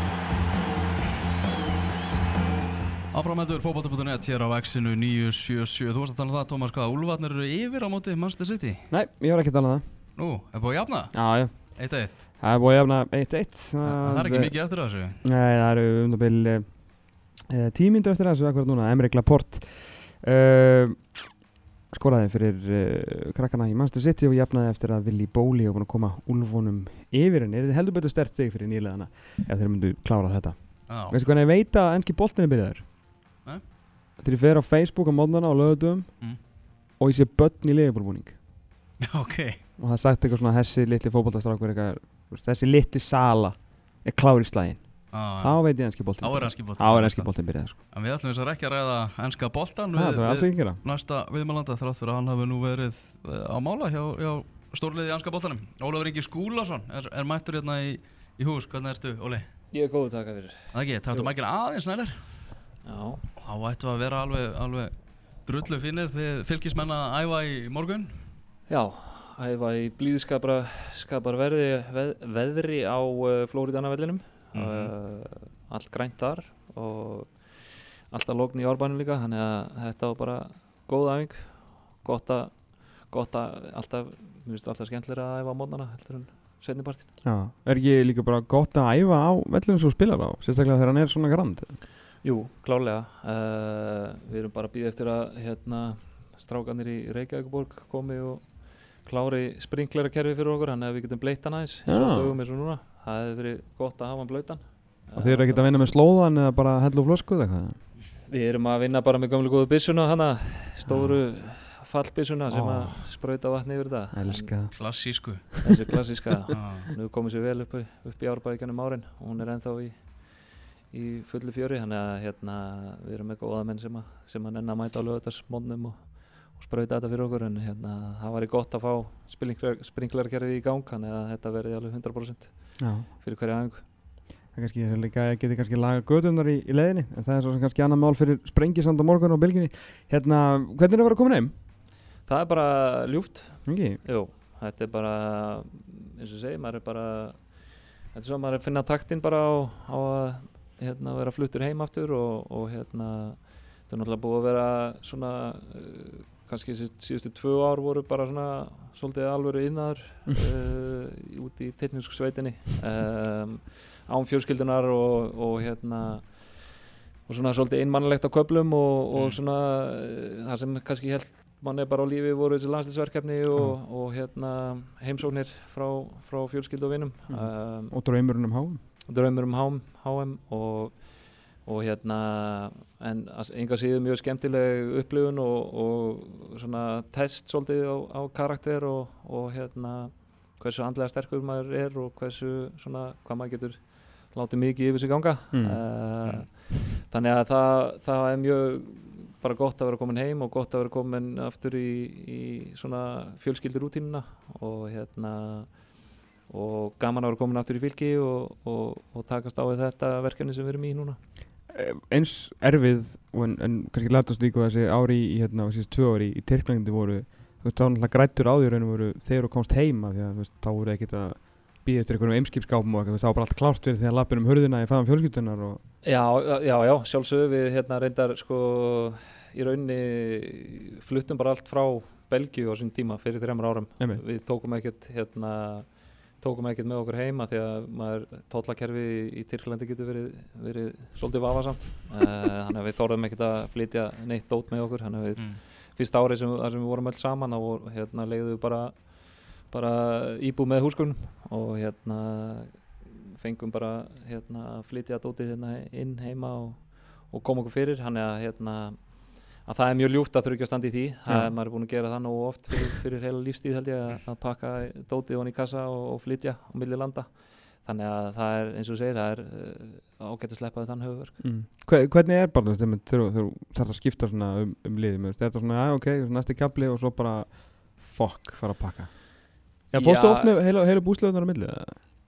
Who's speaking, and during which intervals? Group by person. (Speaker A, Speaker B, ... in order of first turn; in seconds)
Speaker A: 3.1-8.9, 10.2-12.2, 13.8-15.2, 30.9-31.2, 39.0-39.6, 45.1-59.5, 60.7-62.3, 63.4-68.3, 74.5-74.9, 114.7-115.7, 116.5-116.9
Speaker B: 8.9-9.9, 11.1-32.9, 34.2-38.4, 39.8-47.8, 49.9-50.8, 87.2-91.8, 101.9-102.4, 105.2-107.8, 110.9-111.2, 112.5-113.2, 114.1-115.5, 132.8-133.1, 134.5-141.5, 143.7-144.0, 177.3-178.8, 195.5-196.0, 211.7-225.8, 261.3-261.5, 271.4-282.0
Speaker C: 59.7-61.3, 62.8-63.2, 68.7-87.1, 92.2-105.8, 108.3-114.6, 115.6-133.8, 142.2-177.9, 179.1-211.2, 226.0-271.4, 279.9-280.6